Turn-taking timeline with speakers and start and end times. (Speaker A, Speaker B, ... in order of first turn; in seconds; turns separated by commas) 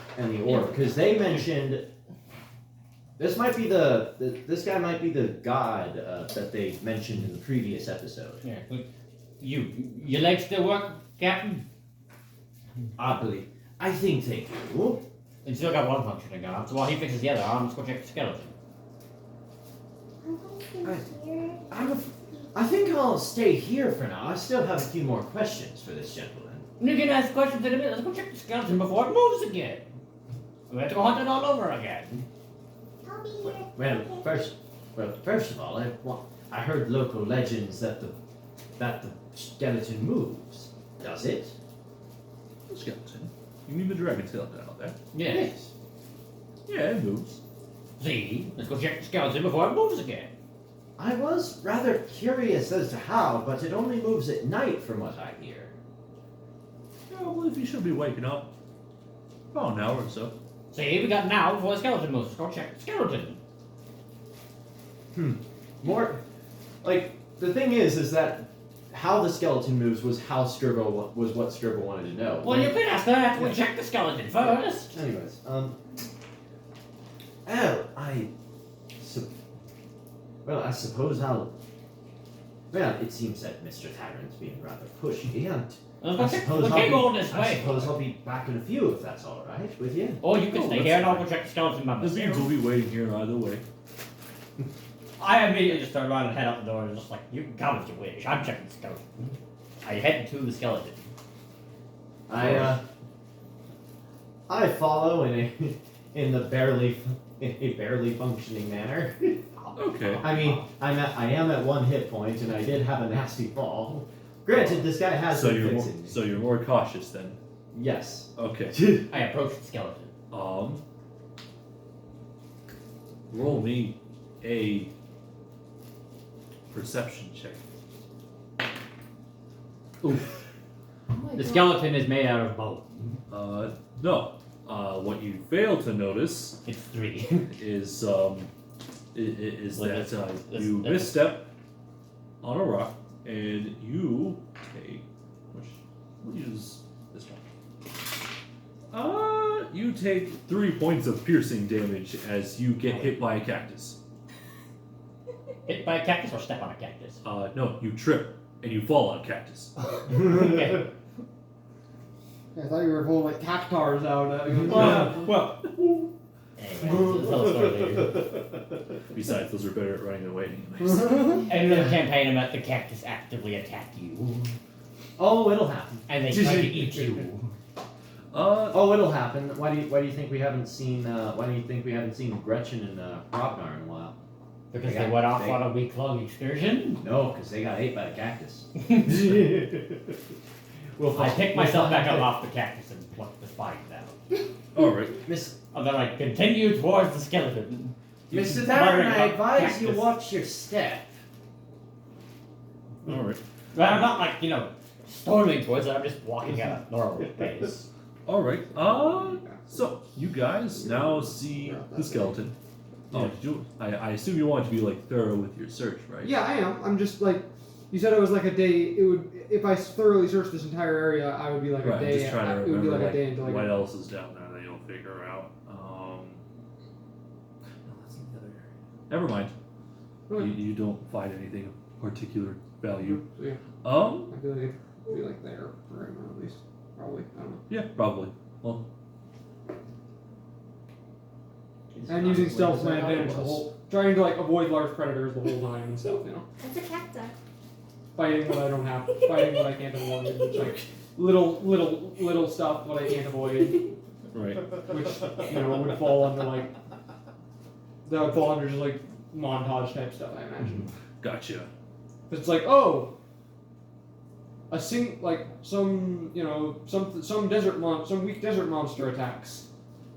Speaker A: 0.1-1.9, Speaker A: 3.2-8.4, Speaker B: 8.4-8.9, Speaker B: 9.4-11.6, Speaker A: 13.0-15.0, Speaker B: 15.4-18.5, Speaker C: 20.2-21.7, Speaker A: 20.8-26.7, Speaker B: 26.8-29.9, Speaker B: 30.7-32.2, Speaker C: 33.0-34.3, Speaker A: 33.4-38.1, Speaker A: 38.8-41.5, Speaker D: 42.7-45.0, Speaker B: 45.1-45.5, Speaker A: 45.2-45.7, Speaker D: 46.7-47.4, Speaker B: 48.0-50.3, Speaker A: 51.0-55.7, Speaker D: 57.1-58.5, Speaker D: 59.5-60.3, Speaker B: 60.7-63.4, Speaker A: 65.1-66.2, Speaker A: 66.8-72.8, Speaker B: 72.4-74.9, Speaker A: 74.5-75.8, Speaker A: 77.5-78.3, Speaker A: 79.0-79.3, Speaker A: 80.5-81.5, Speaker A: 82.7-90.2, Speaker B: 86.0-88.0, Speaker B: 90.2-92.5, Speaker D: 90.3-91.3, Speaker D: 92.0-93.6, Speaker B: 95.2-101.0, Speaker A: 102.3-102.8, Speaker D: 102.3-102.8, Speaker A: 104.5-109.4, Speaker B: 109.6-110.7, Speaker D: 109.8-110.3, Speaker A: 110.2-116.2, Speaker D: 114.5-117.4, Speaker A: 117.7-119.1, Speaker D: 118.4-118.8, Speaker B: 119.1-120.1, Speaker D: 120.3-120.8, Speaker D: 123.3-124.9, Speaker D: 126.7-127.6, Speaker B: 130.0-130.4, Speaker B: 131.1-133.2, Speaker D: 133.3-136.6, Speaker B: 136.7-137.5, Speaker D: 137.5-138.5, Speaker D: 139.1-141.5, Speaker B: 139.7-141.3, Speaker D: 142.4-147.4, Speaker D: 148.9-154.0, Speaker B: 155.7-157.2, Speaker D: 157.2-159.7, Speaker B: 160.0-160.9, Speaker E: 162.5-165.1, Speaker D: 164.6-165.7, Speaker B: 164.7-165.6, Speaker B: 166.6-168.4, Speaker A: 166.8-167.1, Speaker D: 169.1-171.4, Speaker E: 171.0-171.4, Speaker B: 171.5-174.6, Speaker A: 175.2-176.0, Speaker B: 176.1-177.5, Speaker D: 176.3-177.2, Speaker D: 178.3-178.9, Speaker A: 178.7-184.2, Speaker B: 184.7-187.0, Speaker A: 184.8-185.7, Speaker A: 187.0-190.2, Speaker A: 191.0-192.3, Speaker B: 191.1-194.4, Speaker D: 194.7-195.2, Speaker A: 195.2-195.6, Speaker B: 195.7-200.1, Speaker A: 198.3-201.2, Speaker D: 203.1-203.4, Speaker B: 203.7-207.9, Speaker D: 208.3-212.6, Speaker E: 208.8-209.7, Speaker E: 210.8-212.4, Speaker D: 213.1-216.4, Speaker E: 216.2-223.8, Speaker D: 221.8-226.4, Speaker D: 227.9-229.5, Speaker E: 230.3-230.5, Speaker D: 230.4-233.2, Speaker E: 233.0-233.6, Speaker D: 233.8-234.3, Speaker E: 234.3-237.6, Speaker D: 237.7-238.9, Speaker A: 242.0-243.6, Speaker E: 242.1-246.5, Speaker C: 246.6-247.3, Speaker E: 248.2-253.9, Speaker D: 250.6-250.8, Speaker D: 254.3-254.8, Speaker E: 254.8-256.7, Speaker E: 258.1-260.9, Speaker D: 261.2-261.7, Speaker E: 262.3-263.1, Speaker E: 264.7-269.6